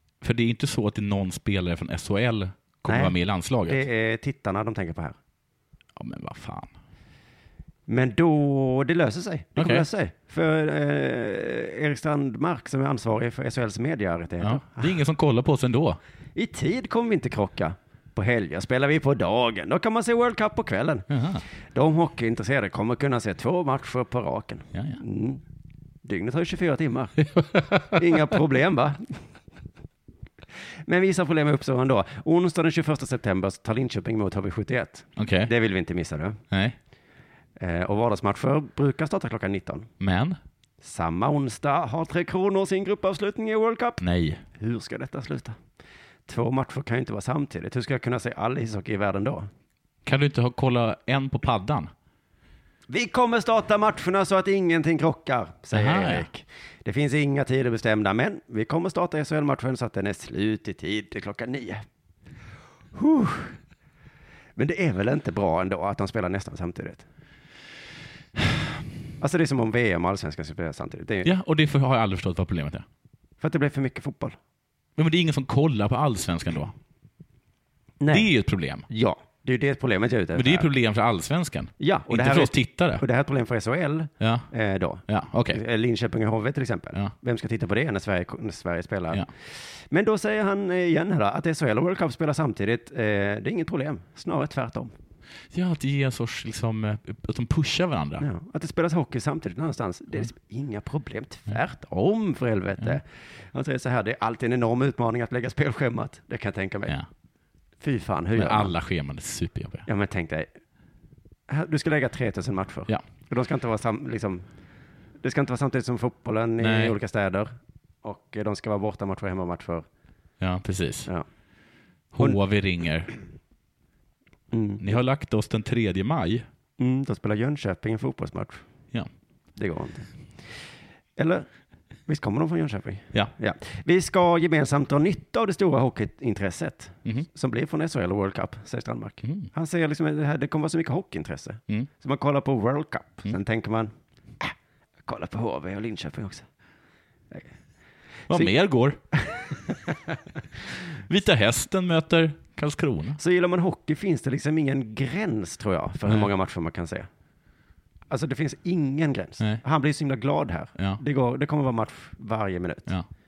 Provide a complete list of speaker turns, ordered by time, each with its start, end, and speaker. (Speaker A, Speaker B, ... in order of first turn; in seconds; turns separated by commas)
Speaker A: 0.2-3.8, Speaker B: 2.9-3.1, Speaker B: 3.6-5.2, Speaker A: 6.0-6.7, Speaker B: 7.9-15.0, Speaker A: 9.6-9.8, Speaker A: 14.4-16.0, Speaker B: 16.3-21.1, Speaker A: 21.1-21.4, Speaker B: 21.7-25.4, Speaker A: 24.7-25.0, Speaker B: 26.0-27.2, Speaker A: 27.2-28.2, Speaker B: 27.8-29.2, Speaker B: 30.9-36.4, Speaker A: 35.2-35.5, Speaker A: 36.5-36.8, Speaker B: 37.6-39.9, Speaker A: 40.0-40.4, Speaker B: 40.8-44.0, Speaker A: 44.0-44.4, Speaker B: 44.5-45.6, Speaker B: 46.3-49.5, Speaker A: 50.0-51.9, Speaker B: 52.9-61.8, Speaker A: 55.7-56.3, Speaker B: 62.9-63.6, Speaker B: 64.6-67.0, Speaker B: 69.2-71.3, Speaker A: 71.2-72.8, Speaker B: 73.4-74.4, Speaker A: 75.0-76.7, Speaker B: 78.0-78.3, Speaker A: 78.1-78.8, Speaker B: 78.9-80.7, Speaker A: 80.3-83.0, Speaker B: 81.8-94.9, Speaker A: 84.2-84.5, Speaker A: 85.1-85.6, Speaker A: 95.5-98.2, Speaker B: 98.2-107.0, Speaker B: 107.8-108.7, Speaker A: 108.3-109.9, Speaker B: 109.8-110.5, Speaker B: 111.5-114.4, Speaker B: 115.2-117.5, Speaker A: 116.6-117.0, Speaker B: 118.0-119.8, Speaker A: 120.4-121.1, Speaker A: 122.1-123.1, Speaker B: 124.5-125.0, Speaker A: 124.8-126.4, Speaker B: 126.8-128.6, Speaker B: 129.6-130.1, Speaker B: 131.2-131.5, Speaker B: 132.1-144.5, Speaker B: 145.1-146.4, Speaker A: 148.3-149.0, Speaker B: 149.2-149.9, Speaker A: 151.1-153.2, Speaker B: 153.2-157.1, Speaker B: 158.1-162.9